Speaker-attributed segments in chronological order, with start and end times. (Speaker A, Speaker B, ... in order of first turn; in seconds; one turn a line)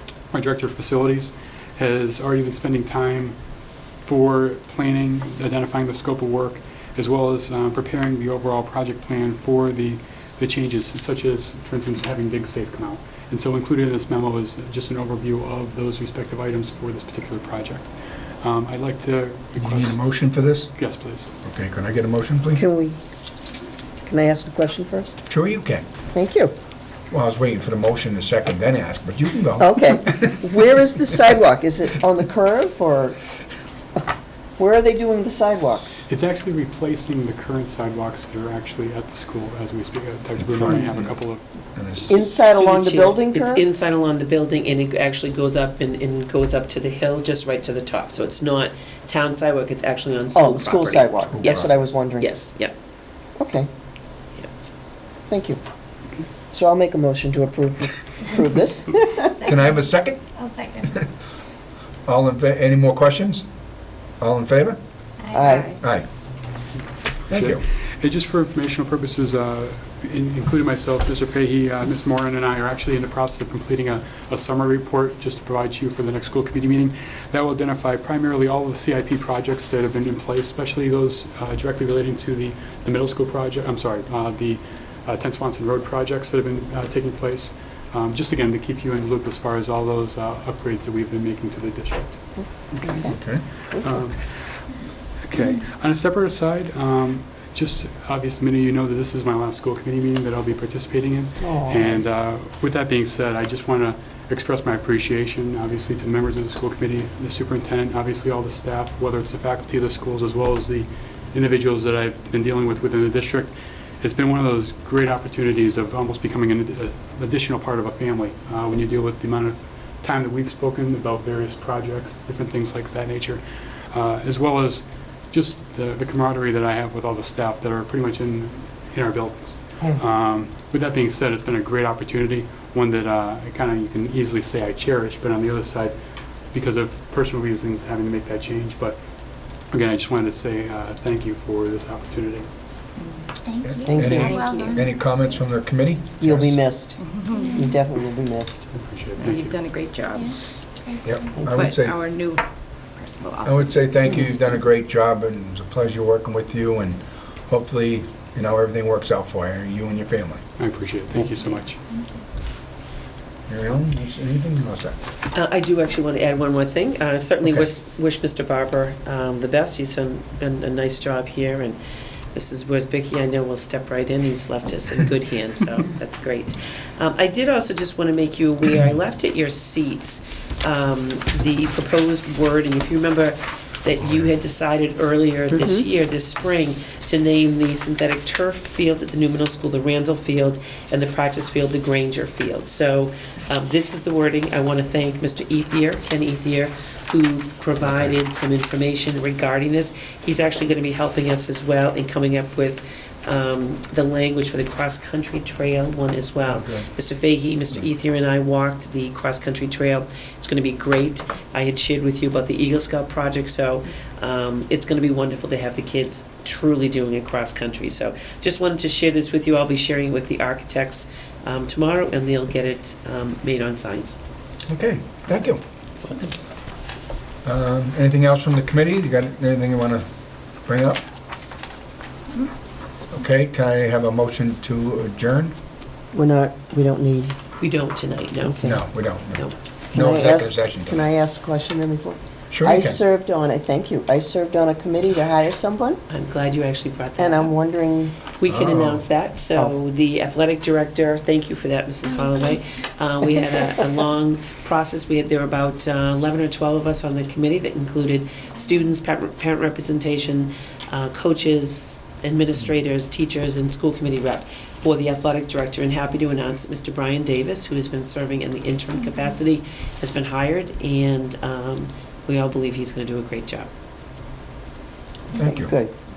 Speaker A: 0.3-3.4
Speaker A: 4.0-17.9
Speaker A: 18.4-20.1
Speaker B: 19.6-20.7
Speaker A: 20.7-21.3
Speaker B: 21.4-22.6
Speaker C: 22.6-23.0
Speaker C: 24.1-25.2
Speaker B: 25.3-25.9
Speaker C: 26.1-26.5
Speaker B: 27.1-30.3
Speaker C: 29.6-33.2
Speaker C: 34.6-35.9
Speaker A: 36.1-42.2
Speaker B: 40.4-41.1
Speaker B: 41.8-42.3
Speaker C: 42.1-43.6
Speaker D: 42.5-52.7
Speaker C: 50.3-52.4
Speaker B: 51.2-51.7
Speaker C: 53.4-53.7
Speaker C: 55.3-55.6
Speaker C: 56.5-59.4
Speaker E: 59.4-61.1
Speaker B: 59.4-60.2
Speaker B: 60.8-61.1
Speaker B: 62.1-63.5
Speaker B: 64.2-64.8
Speaker E: 65.2-65.8
Speaker C: 65.3-65.7
Speaker F: 65.4-65.8
Speaker B: 65.7-66.1
Speaker B: 67.3-67.6
Speaker A: 67.3-92.2
Speaker C: 92.4-93.2
Speaker A: 92.7-94.7
Speaker B: 93.1-93.4
Speaker C: 93.7-94.0
Speaker A: 95.2-136.0
Speaker C: 101.4-102.0
Speaker A: 136.5-139.0
Speaker A: 139.7-142.5
Speaker F: 143.0-143.2
Speaker E: 143.4-145.4
Speaker B: 143.6-146.6
Speaker C: 143.8-144.8
Speaker C: 146.2-147.0
Speaker F: 147.0-147.7
Speaker E: 147.3-147.8
Speaker C: 147.5-148.7
Speaker A: 148.7-149.6
Speaker F: 149.2-150.3
Speaker E: 150.1-151.3
Speaker B: 151.0-152.0
Speaker F: 151.5-154.2
Speaker B: 153.4-160.4
Speaker A: 160.6-161.8
Speaker E: 161.9-162.2
Speaker B: 163.5-165.0
Speaker D: 165.3-171.8
Speaker D: 172.3-224.2
Speaker C: 185.5-185.9
Speaker B: 197.8-198.2
Speaker B: 206.4-206.9
Speaker B: 224.7-225.7
Speaker D: 226.0-226.3
Speaker B: 227.4-230.1
Speaker B: 230.6-231.0
Speaker B: 233.1-235.5
Speaker C: 236.1-237.3
Speaker D: 237.6-238.6
Speaker C: 238.4-238.8
Speaker B: 238.6-241.1
Speaker C: 239.9-246.0
Speaker B: 242.5-243.0
Speaker D: 246.1-247.5
Speaker C: 247.2-248.2
Speaker D: 248.3-273.7
Speaker B: 248.5-249.1
Speaker E: 252.1-252.6
Speaker C: 275.3-275.9
Speaker B: 275.4-275.8